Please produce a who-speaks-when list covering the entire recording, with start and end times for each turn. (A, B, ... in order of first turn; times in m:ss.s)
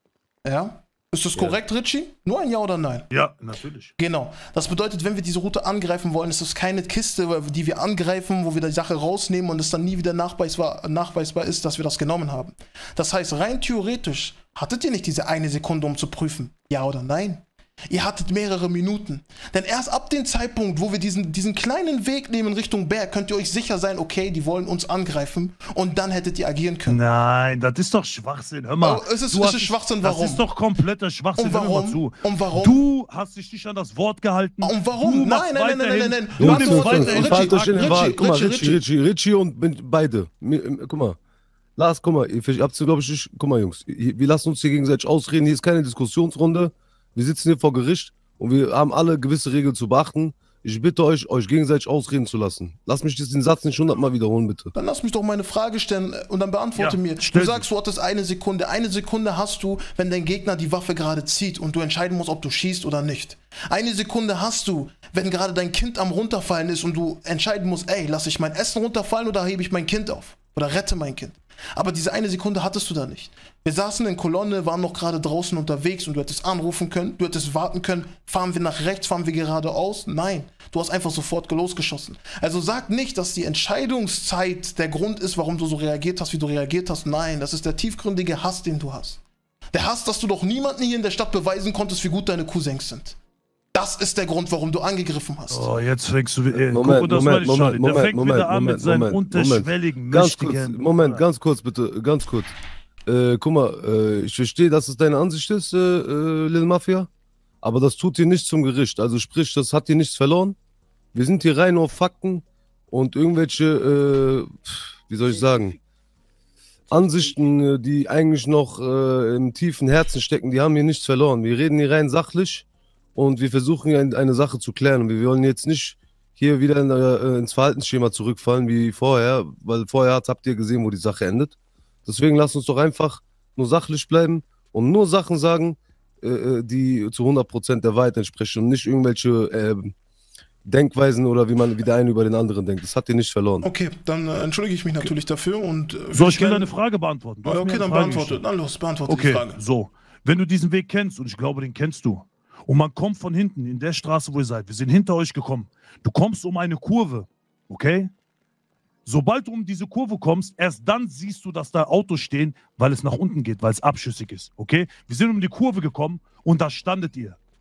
0:00.4-0:03.1 A
0:03.1-0:03.9 B
0:04.0-0:27.0 A
0:26.9-0:38.0 B
0:28.8-0:30.4 A
0:31.4-0:32.8 A
0:34.6-0:38.8 A
0:36.4-0:41.2 C
0:41.8-0:54.7 C
0:54.7-1:29.2 A
0:56.8-0:57.6 B
1:29.7-1:33.2 A
1:33.7-1:35.7 A
1:35.5-1:41.2 B
1:36.5-1:47.1 C
1:47.6-1:50.6 C
1:51.1-1:55.8 C
1:56.9-2:02.6 C
2:03.2-2:11.6 C
2:12.1-2:19.9 C
2:20.6-2:23.7 C
2:23.6-2:26.7 A
2:26.1-2:28.4 B
2:27.4-2:29.6 A
2:29.1-2:38.1 B
2:39.1-2:47.4 B